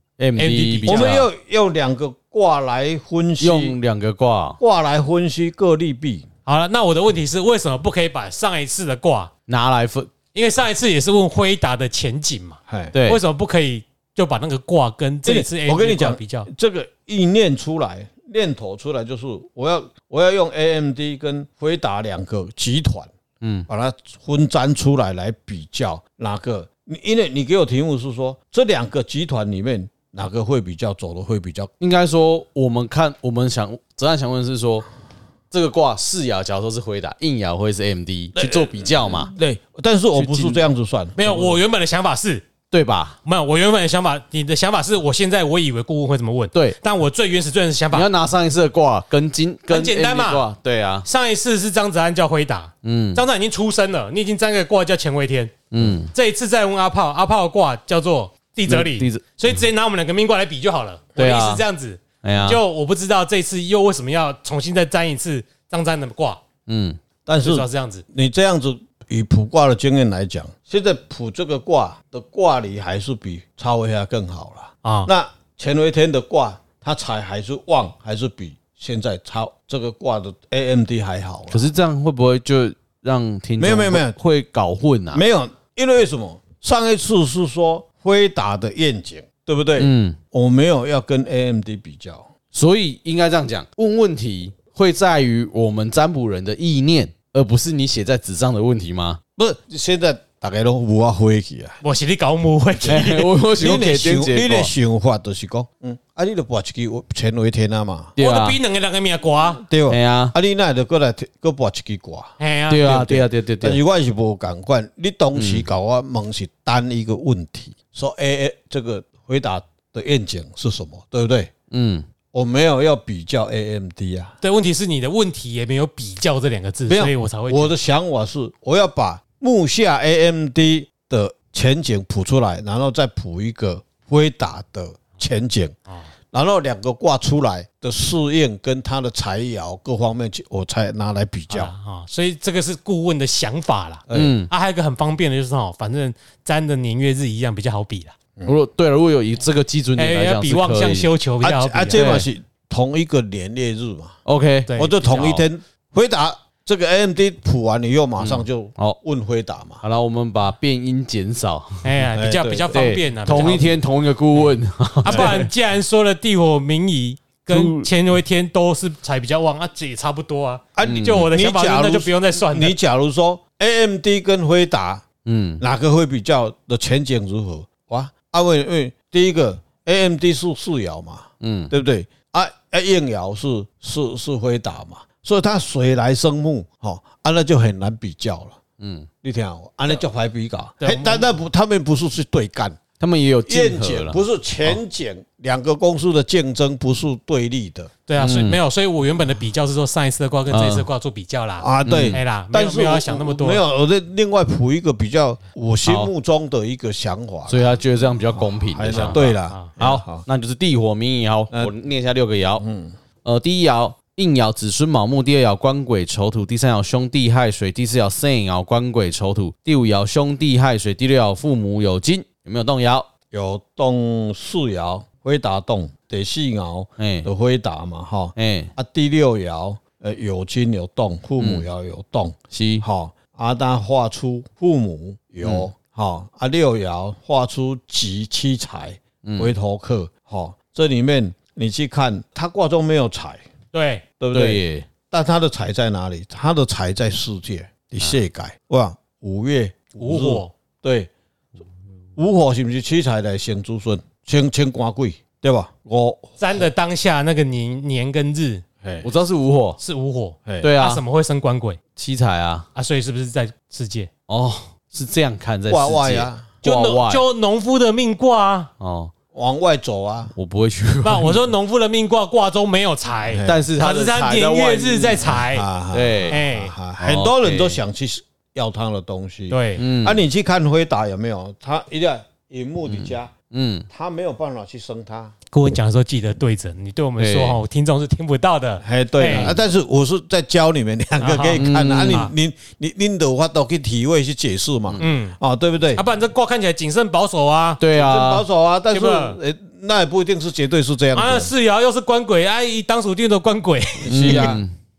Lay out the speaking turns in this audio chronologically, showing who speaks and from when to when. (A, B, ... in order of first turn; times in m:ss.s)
0:00.2-0:01.3 A
0:00.4-0:01.2 B
0:00.9-0:03.8 C
0:03.4-0:04.6 A
0:04.6-0:06.2 C
0:06.4-0:09.3 B
0:09.5-0:10.1 A
0:10.3-0:16.5 B
0:12.7-0:12.9 C
0:12.9-0:13.2 A
0:15.2-0:23.1 C
0:23.4-0:23.7 A
0:23.7-0:31.7 C
0:31.8-0:34.9 A
0:35.5-0:39.3 A
0:38.3-0:41.6 C
0:40.1-0:40.6 A
0:41.2-0:42.5 B
0:42.7-0:43.2 A
0:43.2-0:48.1 B
0:47.9-0:51.1 A
0:49.7-0:50.5 B
0:51.0-1:06.4 B
0:52.8-0:53.2 A
0:55.7-0:56.1 A
0:58.7-0:59.5 A
1:01.2-1:01.6 A
1:02.2-1:02.6 A
1:06.7-1:07.0 A
1:07.2-1:21.7 C
1:07.4-1:08.0 B
1:14.8-1:15.1 B
1:21.5-1:25.2 A
1:23.6-1:24.2 C
1:25.1-1:32.3 C
1:29.8-1:30.2 A
1:32.5-1:39.2 A
1:39.4-1:41.8 C
1:41.8-1:43.3 B
1:42.8-1:44.7 A
1:43.5-1:48.1 C
1:48.2-1:48.6 A
1:48.2-1:49.6 B
1:49.6-2:01.5 C
1:49.9-1:50.3 A
1:52.4-1:52.9 B
1:52.7-1:53.8 A
1:55.3-1:55.7 A
2:01.7-2:02.0 A
2:02.3-2:04.4 C
2:04.4-2:07.7 B
2:06.9-2:15.7 C
2:16.3-2:21.7 C
2:21.5-2:28.1 B
2:24.1-2:24.3 C
2:24.1-2:24.5 A
2:28.4-2:31.1 A
2:30.0-2:32.2 B
2:31.4-2:34.2 C
2:31.9-2:32.3 A
2:34.2-2:34.7 A
2:34.7-2:35.4 B
2:34.8-2:39.8 C
2:38.2-2:39.0 A
2:39.8-2:42.0 A
2:41.8-2:43.8 B
2:42.1-2:42.8 C
2:42.7-2:45.5 A
2:45.0-2:52.8 B
2:45.1-2:45.3 C
2:47.5-2:47.9 A
2:50.8-2:55.0 C
2:50.8-2:51.3 A
2:55.2-2:55.6 A
2:55.6-3:08.6 C
3:01.4-3:01.7 A
3:08.8-3:09.1 A
3:09.2-3:12.8 C
3:10.8-3:11.2 B
3:13.0-3:14.8 A
3:13.4-3:17.9 C
3:18.1-3:23.6 B
3:18.2-3:18.6 A
3:20.5-3:20.9 A
3:21.6-3:27.8 C
3:21.8-3:22.2 A
3:25.8-3:26.1 A
3:27.5-3:32.6 A
3:28.3-3:30.2 C
3:28.9-3:29.7 B
3:32.6-3:32.9 C
3:33.2-3:43.1 A
3:43.3-4:03.4 C
3:47.0-3:47.3 A
3:48.4-3:48.7 A
3:51.4-3:51.6 A
3:52.5-3:52.8 A
3:55.4-3:55.7 A
3:59.2-3:59.5 A
4:03.7-4:04.0 B
4:04.2-4:11.1 C
4:04.3-4:04.9 A
4:10.0-4:10.5 B
4:12.2-4:16.6 C
4:16.4-4:18.6 B
4:18.8-4:19.1 C
4:19.0-4:19.8 A
4:19.8-4:21.8 B
4:20.4-4:20.7 C
4:20.6-4:21.0 A
4:22.0-4:22.7 A
4:22.7-4:24.1 B
4:24.3-4:27.2 A
4:25.7-4:26.6 C
4:26.6-4:28.7 B
4:28.8-4:29.1 A
4:29.3-4:30.3 C
4:30.4-4:31.5 A
4:31.0-4:35.6 B
4:33.3-4:33.6 C
4:33.4-4:36.4 A
4:35.2-4:43.3 C
4:36.3-4:36.8 B
4:37.0-4:37.8 A
4:39.5-4:39.8 B
4:39.8-4:40.2 A
4:42.8-4:43.9 A
4:43.9-4:45.3 C
4:45.5-4:49.6 B
4:47.2-4:47.6 A
4:48.8-4:56.0 C
4:49.3-4:49.6 A
4:51.2-4:52.3 B
4:51.6-4:52.3 A
4:55.0-4:55.4 B
4:55.9-4:57.8 B
4:57.8-4:58.4 A
4:57.9-5:01.5 C
4:58.9-4:59.4 B
5:01.1-5:04.5 B
5:04.0-5:04.6 C
5:04.1-5:04.7 A